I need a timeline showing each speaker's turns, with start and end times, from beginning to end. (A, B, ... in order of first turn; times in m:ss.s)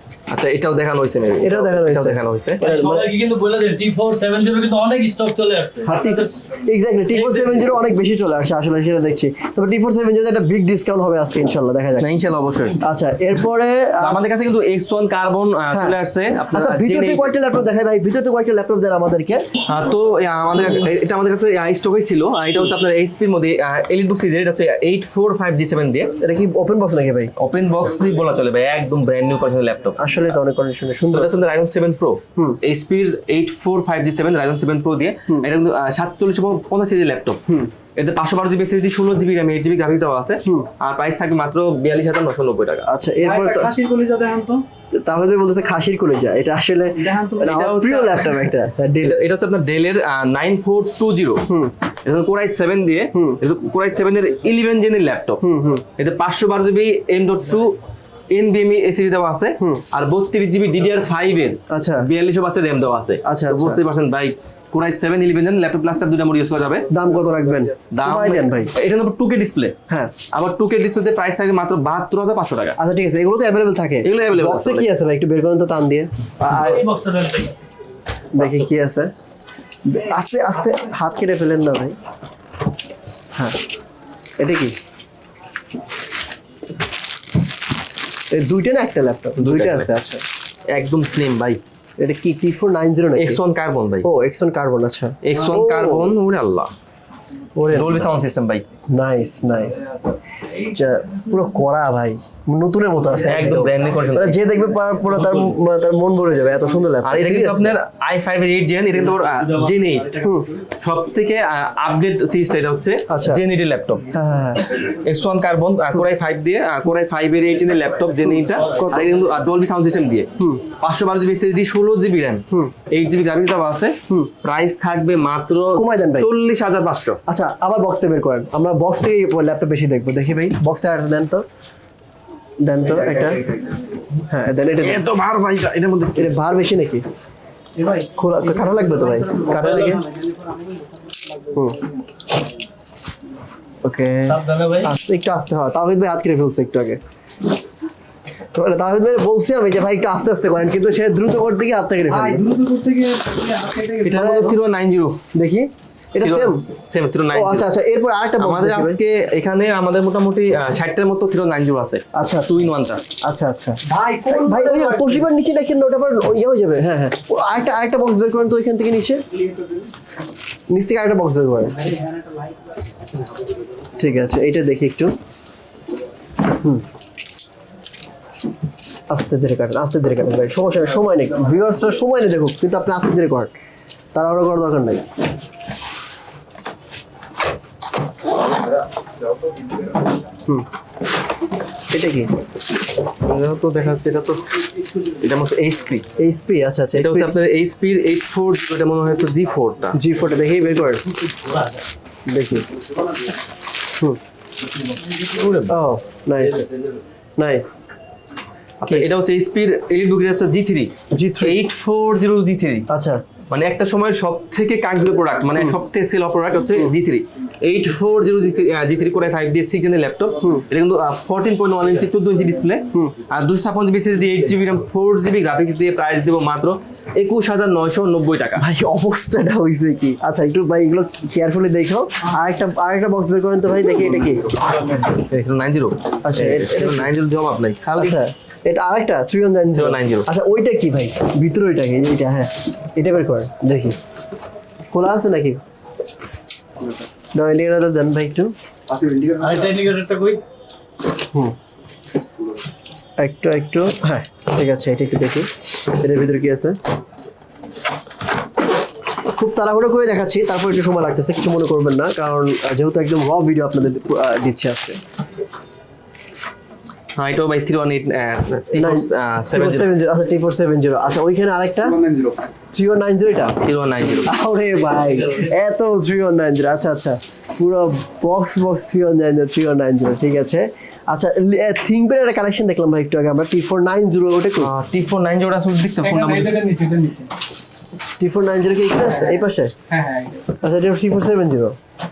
0:00.3-0:02.6 A
0:01.4-0:03.1 B
0:02.6-0:06.4 C
0:05.8-0:12.1 B
0:07.1-0:07.8 C
0:12.0-0:12.8 A
0:12.8-0:14.2 B
0:14.0-0:17.2 A
0:16.5-0:19.5 B
0:19.6-0:26.1 A
0:26.2-0:27.3 B
0:27.4-0:30.0 A
0:30.0-0:31.3 B
0:31.1-0:37.4 A
0:38.0-0:42.9 A
0:42.9-0:43.7 B
0:43.2-0:44.6 D
0:44.9-0:49.2 B
0:47.0-0:47.6 D
0:47.4-0:48.5 A
0:49.0-0:51.5 A
0:51.5-0:51.7 B
0:52.0-0:55.4 A
0:53.1-0:53.4 B
0:55.4-0:55.8 B
0:56.0-0:57.8 A
0:58.3-1:06.9 A
1:01.7-1:02.1 B
1:03.2-1:03.8 B
1:06.9-1:08.7 B
1:07.9-1:09.8 A
1:09.9-1:10.1 B
1:10.3-1:12.8 A
1:12.8-1:16.9 B
1:14.0-1:14.9 A
1:16.5-1:17.5 C
1:18.3-1:19.1 B
1:19.8-1:22.0 B
1:24.4-1:24.8 B
1:28.3-1:30.2 B
1:29.4-1:29.9 A
1:30.7-1:31.6 A
1:32.0-1:33.4 B
1:33.2-1:34.1 A
1:34.0-1:36.1 B
1:35.2-1:36.7 A
1:37.6-1:38.1 B
1:37.7-1:38.6 A
1:38.9-1:40.0 B
1:40.6-1:47.8 B
1:43.2-1:44.4 A
1:47.0-1:50.2 A
1:50.2-1:50.5 B
1:50.8-1:54.0 A
1:53.1-1:53.4 B
1:54.1-1:54.6 B
1:54.7-2:00.3 A
1:58.7-1:59.1 B
2:00.4-2:00.6 B
2:00.8-2:07.2 A
2:05.8-2:06.3 B
2:07.3-2:11.5 B
2:12.6-2:13.4 B
2:14.3-2:15.0 B
2:14.8-2:16.4 A
2:16.1-2:17.1 B
2:17.8-2:21.5 D
2:18.2-2:20.0 B
2:19.5-2:20.0 A
2:23.8-2:27.0 B
2:24.3-2:24.9 C
2:28.5-2:32.4 B
2:32.1-2:34.4 D
2:34.0-2:35.2 A
2:34.1-2:34.5 B
2:35.3-2:36.6 B
2:36.2-2:37.7 A
2:37.3-2:39.0 B
2:38.4-2:43.0 A
2:42.1-2:42.6 B
2:43.2-2:49.2 B
2:43.8-2:45.3 D
2:49.3-2:49.9 D
2:50.7-2:51.8 B
2:51.8-2:52.7 D
2:54.0-2:55.2 B
2:59.1-3:03.5 B
3:04.1-3:05.0 B
3:11.9-3:12.3 B
3:13.2-3:16.1 A
3:16.2-3:17.3 B
3:17.0-3:20.0 A
3:20.0-3:21.0 B
3:22.3-3:22.7 B
3:25.1-3:25.7 A
3:25.7-3:26.7 B
3:27.4-3:27.8 B
3:28.8-3:32.9 A
3:31.1-3:31.6 B
3:32.9-3:33.2 B
3:33.5-3:48.6 A
3:48.6-3:54.6 B
3:55.1-3:58.2 A
3:56.2-3:57.1 B
3:58.0-4:04.0 B
3:59.7-4:00.3 A
4:04.9-4:05.6 B
4:07.3-4:08.5 B
4:09.4-4:10.4 C
4:13.2-4:16.8 B
4:19.4-4:25.0 B
4:27.2-4:29.9 A
4:28.7-4:32.0 B
4:32.7-4:33.6 B
4:33.6-4:34.3 A
4:34.3-4:44.7 B
4:44.6-4:46.6 A
4:46.0-4:47.3 D
4:48.2-4:49.7 B
4:50.6-4:51.8 B